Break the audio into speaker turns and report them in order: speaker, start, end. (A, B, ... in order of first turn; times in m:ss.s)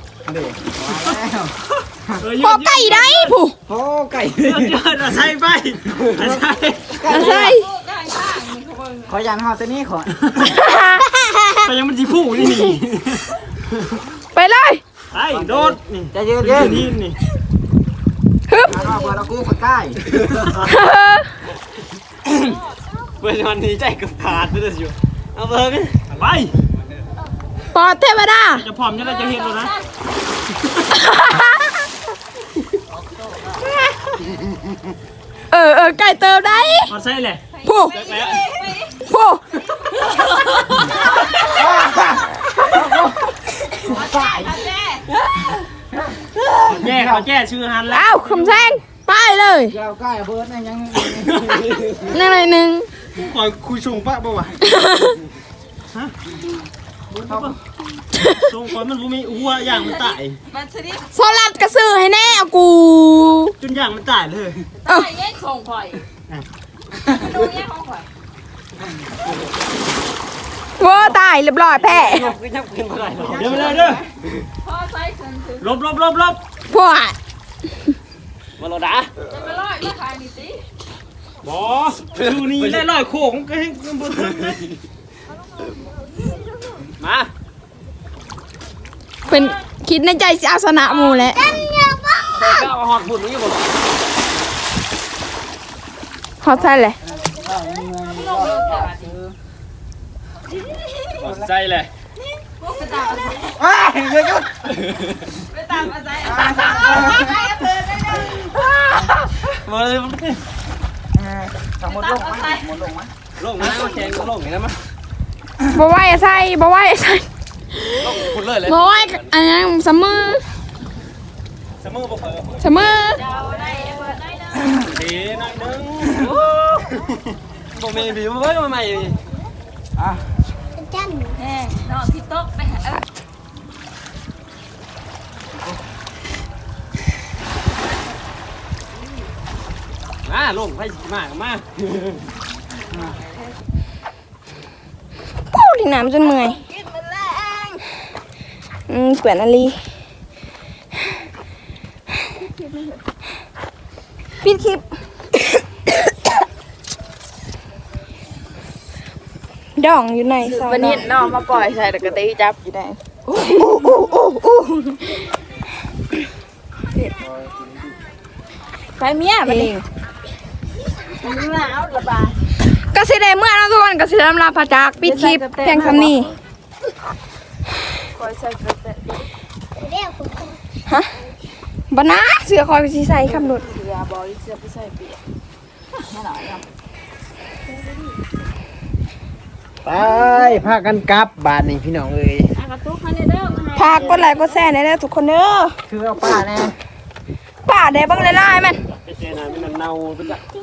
0:00.2-0:01.5 A
0:00.9-0:01.2 B
0:02.2-0:03.4 B
0:02.4-0:03.6 C
0:03.7-0:04.7 A
0:04.4-0:07.0 B
0:06.0-0:07.5 A
0:07.1-0:07.6 C
0:07.1-0:09.2 D
0:09.1-0:10.2 A
0:10.4-0:11.5 C
0:11.6-0:13.3 B
0:14.3-0:14.8 C
0:15.1-0:17.2 B
0:15.3-0:16.9 A
0:18.5-0:18.9 C
0:18.7-0:20.0 A
0:20.6-0:21.3 C
0:23.2-0:26.5 B
0:27.7-0:28.6 C
0:28.6-0:29.7 B
0:29.0-0:29.7 D
0:30.9-0:31.8 C
0:35.5-0:36.9 C
0:36.9-0:38.4 B
0:37.6-0:37.9 C
0:37.9-0:38.9 D
0:39.0-0:39.4 C
0:39.8-0:41.4 D
0:41.5-0:43.1 A
0:43.8-0:44.5 A
0:43.8-0:45.1 D
0:46.7-0:48.8 B
0:46.7-0:47.3 A
0:47.9-0:49.8 C
0:49.7-0:51.7 A
0:51.2-0:52.1 B
0:52.1-0:52.9 C
0:53.1-0:54.6 B
0:54.6-0:55.2 C
0:57.1-0:57.6 B
0:57.3-0:57.5 A
0:58.2-0:58.5 C
0:58.4-1:00.4 B
0:59.7-1:01.7 D
1:01.1-1:03.5 C
1:03.6-1:04.6 B
1:04.8-1:06.0 D
1:07.0-1:08.1 D
1:10.8-1:12.3 C
1:12.1-1:14.0 B
1:12.6-1:14.0 A
1:14.6-1:15.7 D
1:15.6-1:16.4 B
1:16.7-1:17.2 C
1:18.6-1:19.1 B
1:19.2-1:20.6 D
1:21.4-1:24.6 B
1:22.4-1:22.8 A
1:27.0-1:27.3 B
1:29.2-1:31.5 C
1:31.2-1:32.7 E
1:32.3-1:33.6 B
1:36.4-1:37.0 C
1:37.1-1:39.3 A
1:38.1-1:39.2 D
1:40.5-1:41.2 D
1:41.2-1:41.9 B
1:41.2-1:41.5 A
1:42.3-1:43.6 D
1:43.6-1:44.5 A
1:45.5-1:48.6 D
1:46.2-1:47.3 A
1:49.6-1:50.4 B
1:51.2-1:53.1 A
1:51.8-1:52.7 D
1:53.4-1:54.8 B
1:53.6-1:53.9 D
1:55.7-2:00.4 C
1:58.0-1:59.2 B
2:01.8-2:02.7 B
2:02.6-2:03.2 C
2:03.0-2:04.8 D
2:04.8-2:07.0 B
2:07.7-2:09.2 B
2:10.8-2:11.4 E
2:11.4-2:13.0 D
2:20.2-2:22.1 B
2:23.0-2:23.3 D
2:25.5-2:26.6 C
2:26.1-2:27.8 D
2:28.9-2:29.8 C
2:32.4-2:33.0 D
2:34.4-2:34.8 C
2:39.8-2:41.1 C
2:40.4-2:43.0 D
2:43.3-2:45.1 C
2:49.0-2:49.8 D
2:49.4-2:49.8 C
2:51.1-2:52.4 D
2:52.9-2:56.3 C
2:55.0-2:56.3 D
2:58.1-2:59.3 D
2:59.8-3:00.6 E
3:01.9-3:03.6 C
3:03.2-3:05.2 D
3:05.9-3:06.6 D
3:09.8-3:12.5 B
3:12.5-3:14.4 D
3:13.7-3:15.7 C
3:16.0-3:16.7 B
3:16.1-3:16.5 A
3:17.6-3:18.8 C
3:19.0-3:20.4 B